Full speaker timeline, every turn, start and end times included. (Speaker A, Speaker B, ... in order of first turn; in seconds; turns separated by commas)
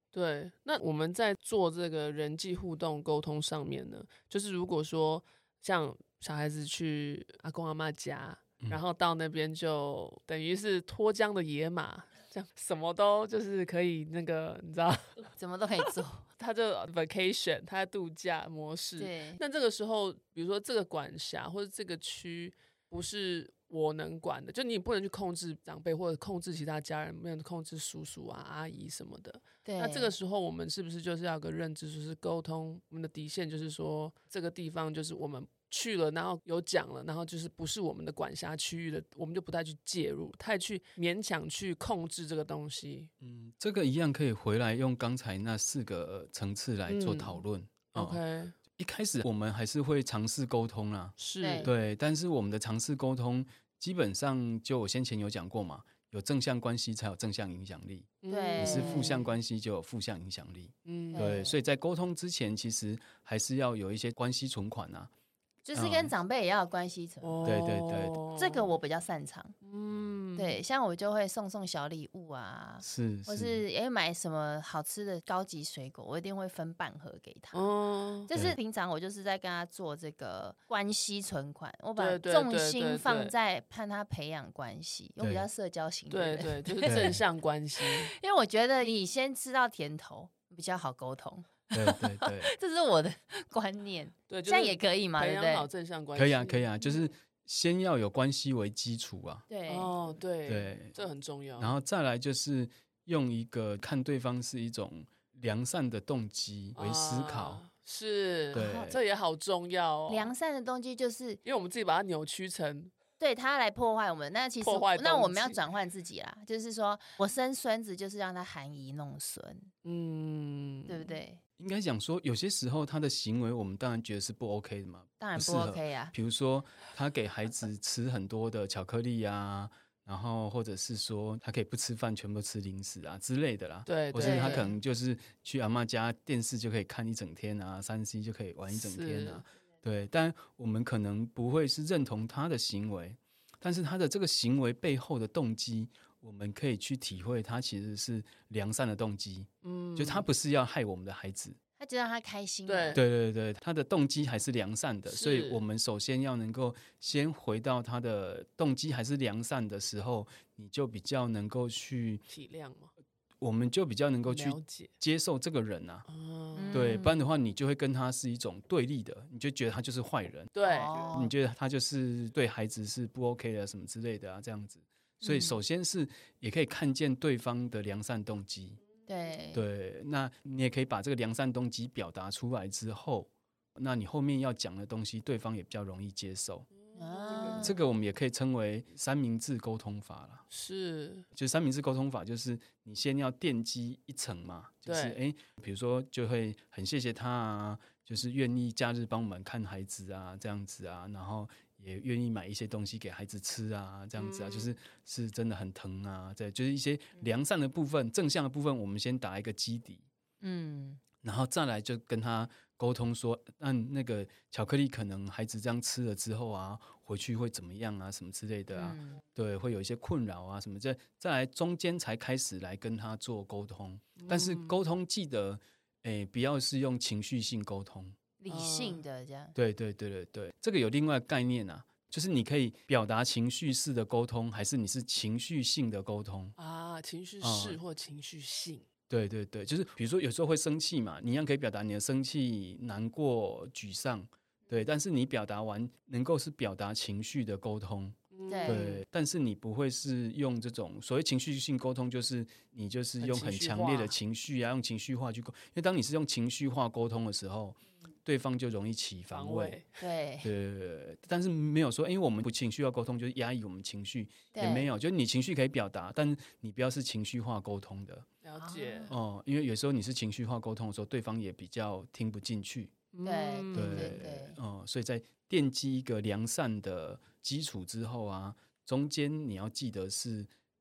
Speaker A: 0.1-15.3, Speaker B: 15.4-16.3, Speaker A: 15.9-43.1, Speaker B: 19.0-19.4, Speaker B: 29.6-30.2, Speaker C: 43.2-48.2, Speaker A: 46.9-48.6, Speaker C: 48.7-65.1, Speaker A: 51.2-51.7, Speaker B: 51.4-51.7, Speaker A: 58.2-59.3, Speaker B: 58.3-59.2, Speaker A: 60.9-61.3, Speaker B: 61.1-61.6, Speaker B: 65.7-67.7, Speaker C: 65.7-66.1, Speaker A: 67.2-68.7, Speaker C: 67.4-68.2, Speaker B: 68.3-69.6, Speaker A: 69.6-70.6, Speaker B: 70.3-77.7, Speaker C: 72.8-73.6, Speaker A: 77.5-78.3, Speaker B: 78.3-87.2, Speaker A: 82.0-83.3, Speaker C: 85.2-85.5, Speaker A: 86.1-88.1, Speaker C: 86.9-87.2, Speaker B: 87.8-95.7, Speaker C: 91.7-92.5, Speaker A: 94.3-96.8, Speaker C: 96.2-99.5, Speaker B: 99.5-100.0, Speaker A: 99.7-101.8, Speaker C: 100.5-101.0, Speaker C: 101.6-107.6, Speaker A: 106.8-110.3, Speaker B: 108.5-109.0, Speaker C: 108.5-109.0, Speaker B: 110.1-111.4, Speaker A: 111.4-112.9, Speaker B: 113.2-119.7, Speaker A: 114.6-115.6, Speaker A: 119.8-121.2, Speaker B: 120.9-121.4, Speaker C: 121.6-151.6, Speaker B: 125.2-126.2, Speaker A: 133.9-134.7, Speaker B: 134.2-134.7, Speaker A: 138.7-139.4, Speaker A: 149.6-150.3, Speaker B: 151.8-153.0, Speaker A: 152.7-153.0, Speaker C: 152.9-162.2, Speaker A: 155.1-155.6, Speaker A: 162.3-162.9, Speaker C: 163.4-166.1, Speaker A: 164.3-164.9, Speaker A: 166.1-167.0, Speaker B: 166.5-167.2, Speaker C: 166.7-170.5, Speaker A: 170.5-171.1, Speaker B: 170.6-171.3, Speaker C: 171.1-178.8, Speaker B: 175.2-175.6, Speaker B: 179.1-179.7, Speaker C: 179.5-186.7, Speaker A: 186.9-187.8, Speaker B: 187.0-187.8, Speaker C: 187.6-190.5, Speaker A: 190.5-191.3, Speaker C: 191.3-210.0, Speaker A: 194.8-195.2, Speaker A: 204.2-204.8, Speaker B: 210.4-211.0, Speaker C: 211.2-228.2, Speaker B: 218.7-219.2, Speaker A: 224.2-224.8, Speaker B: 228.4-229.6, Speaker A: 228.5-229.0, Speaker C: 229.6-236.6, Speaker A: 236.6-238.9, Speaker C: 237.4-237.8, Speaker C: 239.1-259.8, Speaker A: 248.3-249.0, Speaker B: 248.5-248.9, Speaker A: 253.2-254.2, Speaker A: 259.3-260.0, Speaker B: 260.0-260.5, Speaker C: 260.4-268.3, Speaker B: 264.6-264.9, Speaker A: 268.4-269.2, Speaker B: 268.6-269.1, Speaker C: 269.1-272.9, Speaker A: 273.1-274.2, Speaker B: 273.2-274.6, Speaker C: 273.7-280.5